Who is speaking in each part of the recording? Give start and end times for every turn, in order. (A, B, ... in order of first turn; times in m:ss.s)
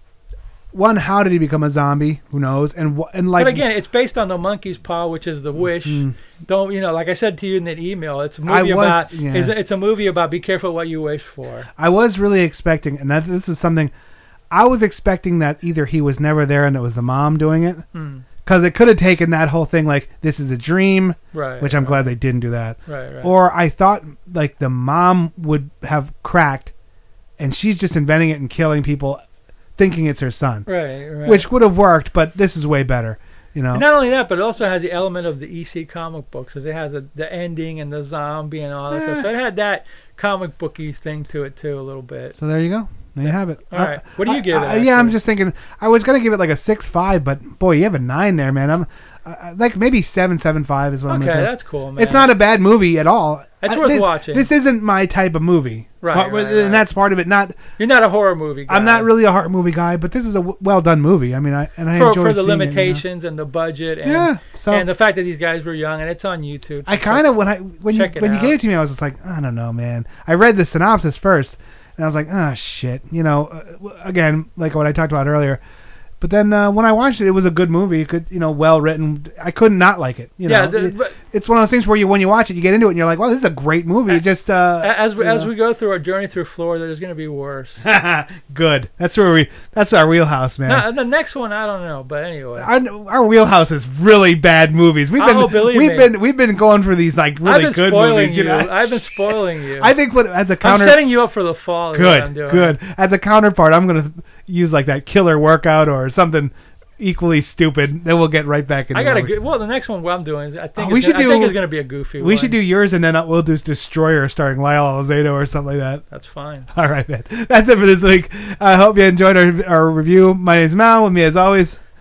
0:00.7-0:03.6 A
0:03.4-0:11.7 B
0:05.7-0:06.2 A
0:08.5-0:09.5 A
0:11.8-0:13.9 A
0:14.5-0:17.8 A
0:17.9-0:18.2 B
0:18.4-0:26.7 A
0:21.3-0:22.1 B
0:22.9-0:23.3 B
0:27.4-0:29.2 A
0:29.8-0:30.7 A
0:30.7-0:31.5 B
0:31.2-0:33.9 A
0:33.7-0:42.4 B
0:38.9-0:39.3 A
0:42.4-0:57.6 A
0:43.2-0:45.2 B
0:51.1-0:52.3 B
0:53.6-0:54.5 B
0:56.0-0:56.9 B
0:57.8-0:59.1 B
0:58.7-1:03.0 A
1:02.0-1:08.6 B
1:04.0-1:04.9 A
1:06.9-1:15.6 A
1:16.2-1:25.5 A
1:20.5-1:21.2 B
1:24.8-1:27.8 B
1:27.8-1:30.9 A
1:30.7-1:32.7 B
1:32.6-1:41.1 A
1:35.2-1:36.1 B
1:37.4-1:40.0 B
1:40.6-1:42.8 B
1:41.9-1:49.3 A
1:48.9-1:52.6 B
1:50.8-1:51.6 A
1:52.2-1:56.0 A
1:56.1-1:56.7 B
1:56.7-2:01.8 A